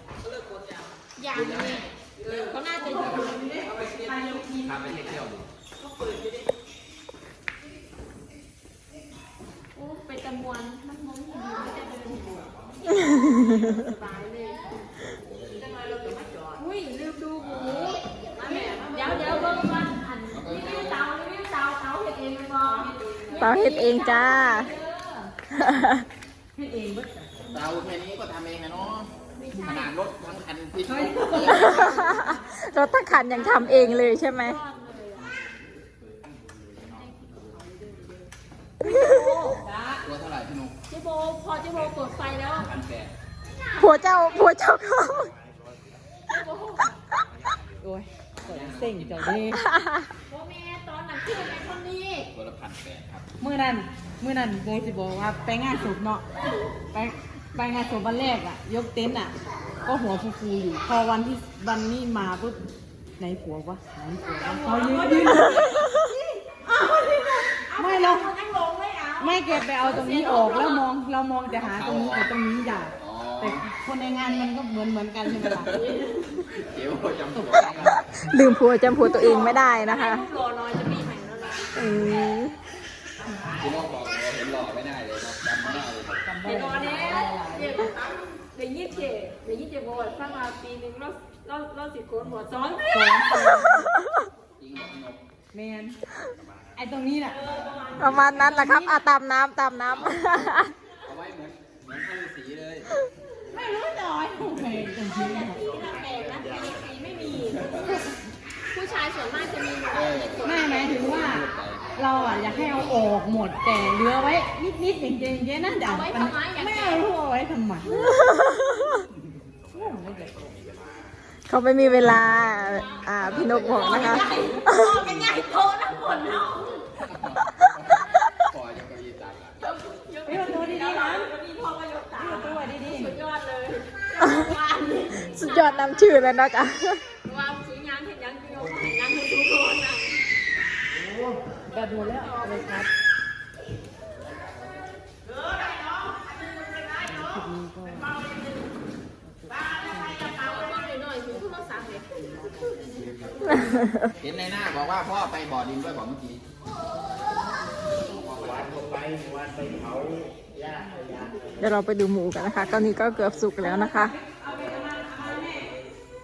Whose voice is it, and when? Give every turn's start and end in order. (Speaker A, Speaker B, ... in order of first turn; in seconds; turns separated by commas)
Speaker A: 1.1-4.4, Speaker B: 1.3-1.9, Speaker C: 2.2-5.2, Speaker B: 2.8-3.8, Speaker B: 4.5-5.5, Speaker A: 9.7-12.4, Speaker C: 11.7-12.5, Speaker D: 12.9-13.7, Speaker A: 13.0-14.6, Speaker B: 14.9-15.7, Speaker A: 15.6-25.3, Speaker C: 15.6-16.6, Speaker B: 17.4-18.0, Speaker C: 18.3-19.9, Speaker B: 20.3-21.0, Speaker C: 22.6-23.6, Speaker D: 23.4-24.7, Speaker D: 25.5-26.1, Speaker C: 26.5-27.4, Speaker B: 27.4-32.0, Speaker A: 29.3-29.9, Speaker C: 30.8-32.4, Speaker D: 31.4-34.6, Speaker A: 31.7-32.2, Speaker A: 33.1-35.3, Speaker B: 33.7-34.1, Speaker B: 36.8-37.1, Speaker A: 37.0-38.3, Speaker A: 38.8-39.6, Speaker D: 38.8-39.2, Speaker B: 39.5-40.8, Speaker C: 39.5-40.0, Speaker A: 40.9-42.7, Speaker B: 41.7-43.1, Speaker A: 43.5-44.6, Speaker D: 43.8-45.3, Speaker E: 45.5-45.8, Speaker A: 46.3-47.0, Speaker C: 47.8-49.6, Speaker B: 48.3-49.6, Speaker D: 49.5-50.1, Speaker A: 50.3-52.3, Speaker B: 52.3-53.3, Speaker C: 53.4-56.2, Speaker A: 56.4-56.6, Speaker C: 56.9-62.6, Speaker C: 63.2-65.8, Speaker A: 64.2-70.9, Speaker D: 65.5-65.9, Speaker C: 67.7-68.3, Speaker C: 69.2-75.8, Speaker B: 71.6-72.3, Speaker B: 73.0-73.7, Speaker B: 75.4-78.0, Speaker A: 75.7-76.4, Speaker C: 77.3-78.0, Speaker D: 78.0-80.3, Speaker A: 79.0-81.9, Speaker D: 81.8-82.6, Speaker B: 83.5-86.3, Speaker C: 86.2-87.9, Speaker A: 86.4-93.8, Speaker C: 92.9-93.9, Speaker D: 93.7-94.0, Speaker B: 94.4-95.2, Speaker C: 95.5-96.0, Speaker C: 96.8-97.4, Speaker A: 97.3-99.1, Speaker D: 98.0-100.7, Speaker B: 99.9-102.9, Speaker C: 103.5-105.9, Speaker A: 105.1-107.9, Speaker B: 105.8-108.0, Speaker C: 107.5-108.1, Speaker A: 108.7-111.4, Speaker B: 109.9-112.9, Speaker C: 110.4-118.0, Speaker A: 115.8-117.1, Speaker D: 118.1-119.0, Speaker C: 119.7-120.5, Speaker D: 121.5-125.0, Speaker A: 122.1-126.9, Speaker B: 123.2-124.6, Speaker C: 124.0-124.6, Speaker B: 127.0-129.6, Speaker A: 129.6-136.1, Speaker C: 130.2-131.3, Speaker C: 132.2-133.2, Speaker D: 134.2-134.5, Speaker D: 135.2-137.0, Speaker A: 137.2-140.2, Speaker C: 141.7-142.9, Speaker A: 141.9-142.9, Speaker C: 147.0-148.2, Speaker C: 149.2-150.6, Speaker A: 150.4-152.1, Speaker D: 153.5-154.1, Speaker B: 154.2-156.4, Speaker B: 157.9-159.1, Speaker E: 158.4-161.6, Speaker C: 160.9-161.1, Speaker D: 161.6-164.1, Speaker C: 163.6-165.8